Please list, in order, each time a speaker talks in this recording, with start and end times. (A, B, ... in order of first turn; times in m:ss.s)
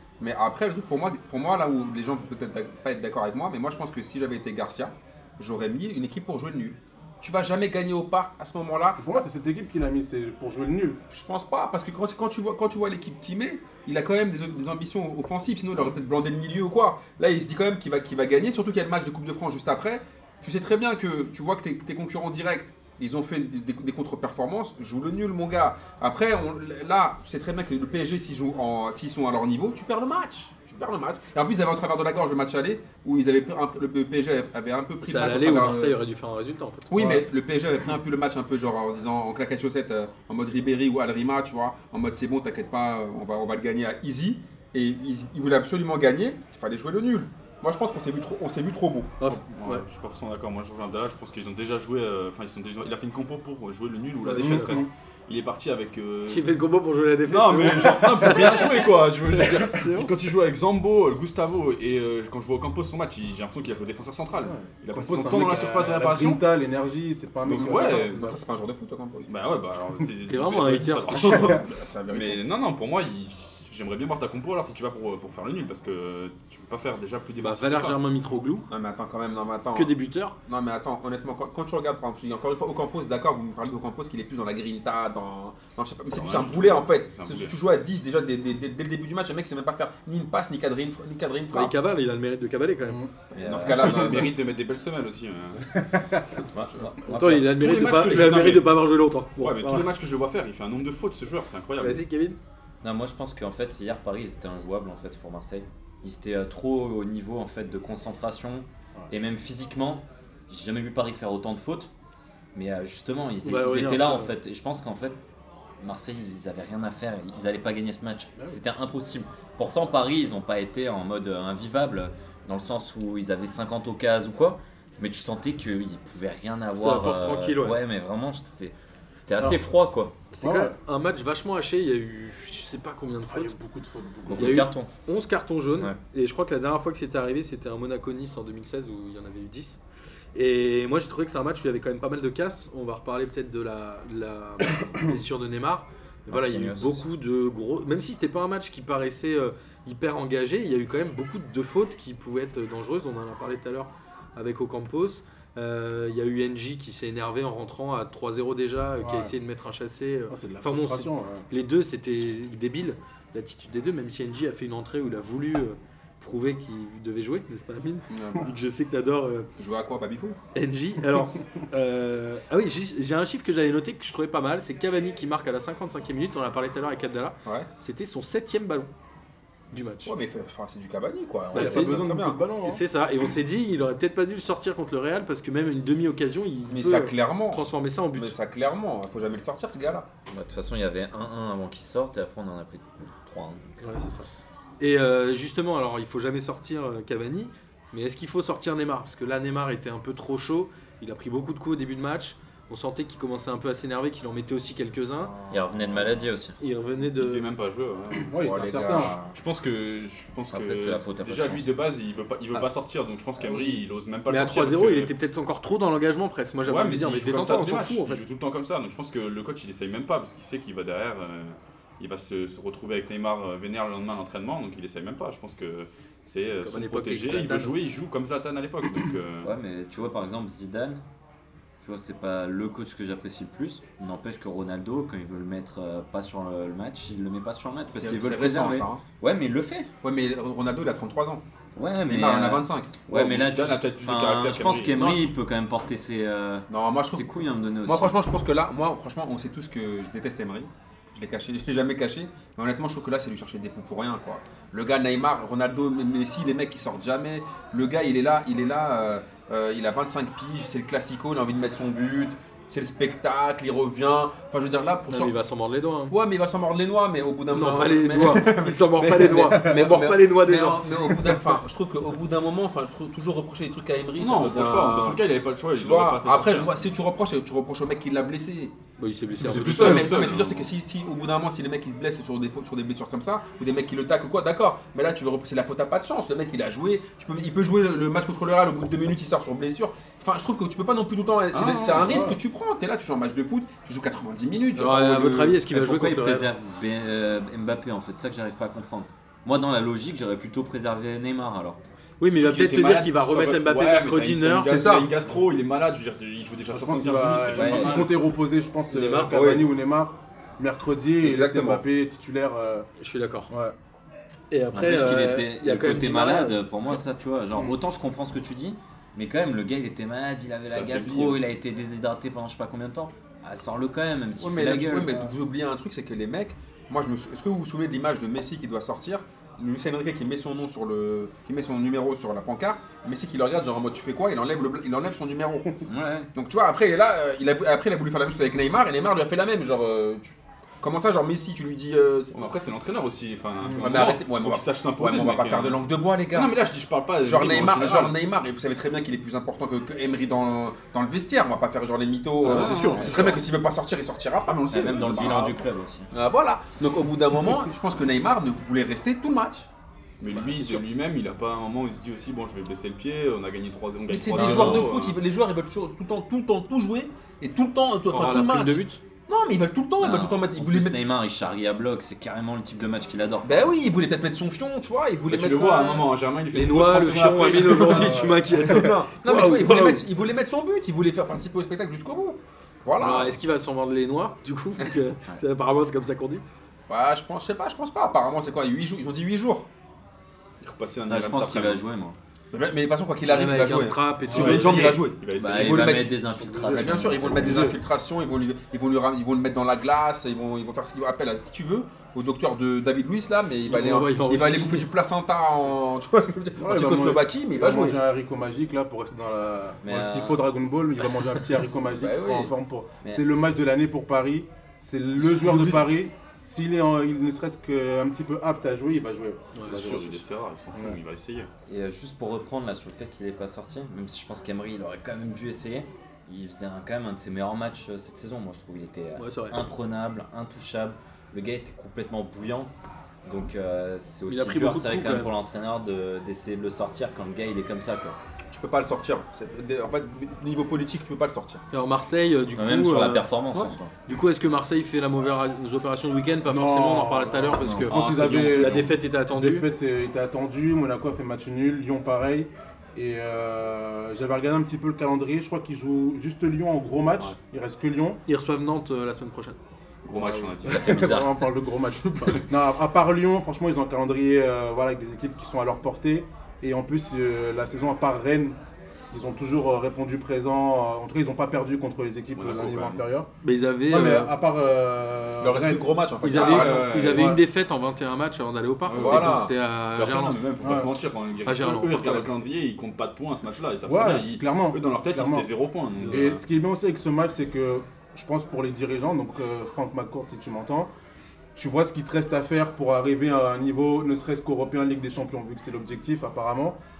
0:00.2-0:09.2 A
0:09.0-0:11.0 B
0:11.1-0:36.0 A
0:35.0-0:37.1 C
0:36.9-0:49.2 A
0:36.9-0:37.2 B
0:49.2-0:49.8 C
0:49.3-0:56.5 D
0:54.2-0:54.9 C
0:54.4-0:54.9 B
0:56.3-1:00.1 C
0:57.3-1:06.4 D
1:04.4-1:08.4 B
1:07.4-1:08.2 D
1:07.6-1:09.3 A
1:09.3-1:18.0 D
1:10.3-1:11.6 C
1:11.2-1:12.4 A
1:17.4-1:18.7 C
1:18.7-1:19.9 A
1:19.7-1:20.4 C
1:20.4-1:31.7 A
1:26.1-1:27.5 D
1:31.5-1:33.0 C
1:33.3-1:34.3 A
1:33.3-1:34.0 E
1:33.5-1:35.7 D
1:36.5-1:37.5 E
1:37.0-1:39.9 C
1:37.5-1:38.8 D
1:39.4-1:42.0 D
1:41.8-1:42.4 C
1:42.8-1:51.9 E
1:52.5-1:55.2 E
1:53.4-1:54.3 C
1:55.8-2:10.2 E
2:06.7-2:07.8 C
2:10.3-2:13.5 C
2:10.4-2:10.7 B
2:13.3-2:14.6 B
2:14.3-2:14.9 E
2:14.4-2:19.8 C
2:20.3-2:49.5 C
2:26.3-2:27.0 E
2:39.0-2:39.3 B
2:40.3-2:41.5 B
2:48.1-2:48.5 A
2:49.6-2:50.4 A
2:50.5-2:58.9 C
2:59.7-3:00.1 C
3:00.0-3:02.4 A
3:01.5-3:02.1 C
3:01.5-3:02.8 B
3:02.6-3:08.4 C
3:06.7-3:10.0 A
3:10.3-3:13.8 E
3:13.8-3:14.3 C
3:14.8-3:25.3 C
3:25.5-3:26.6 E
3:26.6-3:27.4 C
3:27.2-3:28.3 D
3:28.3-3:29.2 B
3:28.4-3:29.3 A
3:28.9-3:35.1 D
3:30.5-3:31.7 E
3:33.4-3:38.2 C
3:36.6-3:49.5 D
3:46.6-3:47.8 C
3:49.4-3:51.0 E
3:51.8-3:59.9 E
3:57.9-3:59.0 A
4:00.0-4:01.4 A
4:01.8-4:08.1 E
4:02.1-4:02.9 A
4:03.1-4:05.1 D
4:04.9-4:05.3 A
4:06.7-4:07.3 A
4:07.8-4:25.3 A
4:25.1-4:26.1 C
4:26.1-4:38.7 A
4:27.5-4:31.4 C
4:29.5-4:29.7 B
4:34.2-4:36.9 D
4:39.0-4:40.2 C
4:39.4-4:40.7 D
4:39.5-4:55.6 A
4:51.5-4:52.4 D
4:52.0-4:52.4 B
4:54.7-4:56.5 C
4:55.6-5:01.8 E
5:02.2-5:04.7 C
5:02.3-5:08.2 D
5:04.6-5:05.1 A
5:06.7-5:12.9 B
5:07.5-5:08.1 E
5:08.9-5:09.4 C
5:09.2-5:09.7 A
5:11.2-5:11.8 A
5:13.0-5:13.5 C
5:13.5-5:13.7 B
5:14.5-5:16.6 C
5:14.7-5:25.1 E
5:20.7-5:21.4 D
5:24.4-5:35.8 A
5:35.9-5:36.3 E
5:36.3-5:42.5 A
5:42.3-5:48.2 D
5:43.6-5:44.1 B
5:43.8-5:46.5 A
5:47.2-5:55.6 A
5:52.4-5:53.5 D
5:52.5-5:53.4 E
5:54.4-5:55.6 D
5:54.7-5:56.1 E
5:56.1-5:59.7 A
6:00.2-6:05.2 D
6:00.3-6:00.6 C
6:00.5-6:00.8 A
6:04.1-6:11.0 A
6:04.4-6:04.8 C
6:08.1-6:09.0 C
6:10.0-6:13.9 E
6:13.4-6:16.1 A
6:15.2-6:18.3 D
6:16.5-6:20.0 C
6:17.9-6:23.4 A
6:23.0-6:26.4 C
6:26.9-6:29.7 A
6:30.6-6:31.8 D
6:31.1-6:32.2 E
6:32.5-6:36.1 A
6:33.2-6:35.0 C
6:34.3-6:36.1 D
6:35.4-6:37.8 E
6:36.4-6:37.8 B
6:36.7-6:48.0 A
6:43.7-6:44.9 C
6:46.6-7:00.2 B
6:49.8-6:50.4 E
6:52.0-6:52.5 A
6:55.2-6:56.0 A
6:59.5-7:00.0 C
6:59.6-7:01.5 D
7:00.7-7:01.0 B
7:01.7-7:12.7 E
7:09.2-7:09.6 C
7:13.2-7:18.2 E
7:14.3-7:15.3 C
7:18.5-7:21.6 A
7:21.7-7:23.2 C
7:22.6-7:23.9 E
7:24.0-7:29.7 C
7:26.4-7:38.2 B
7:27.6-7:27.9 E
7:27.9-7:28.8 D
7:38.3-7:39.6 C
7:40.0-7:41.1 D
7:40.1-7:48.6 B
7:40.6-7:41.4 E
7:42.1-7:42.4 D
7:49.1-7:53.3 B
7:52.4-7:53.0 D
7:53.4-7:54.3 C
7:53.9-7:57.4 B
7:55.4-7:57.2 A
7:56.2-8:00.4 C
7:56.3-7:57.3 D
7:58.9-8:06.4 D
7:58.9-7:59.5 A
8:00.6-8:00.9 B
8:01.4-8:02.3 C
8:03.8-8:05.5 B
8:06.0-8:06.4 C
8:06.1-8:10.9 B
8:11.6-8:16.8 B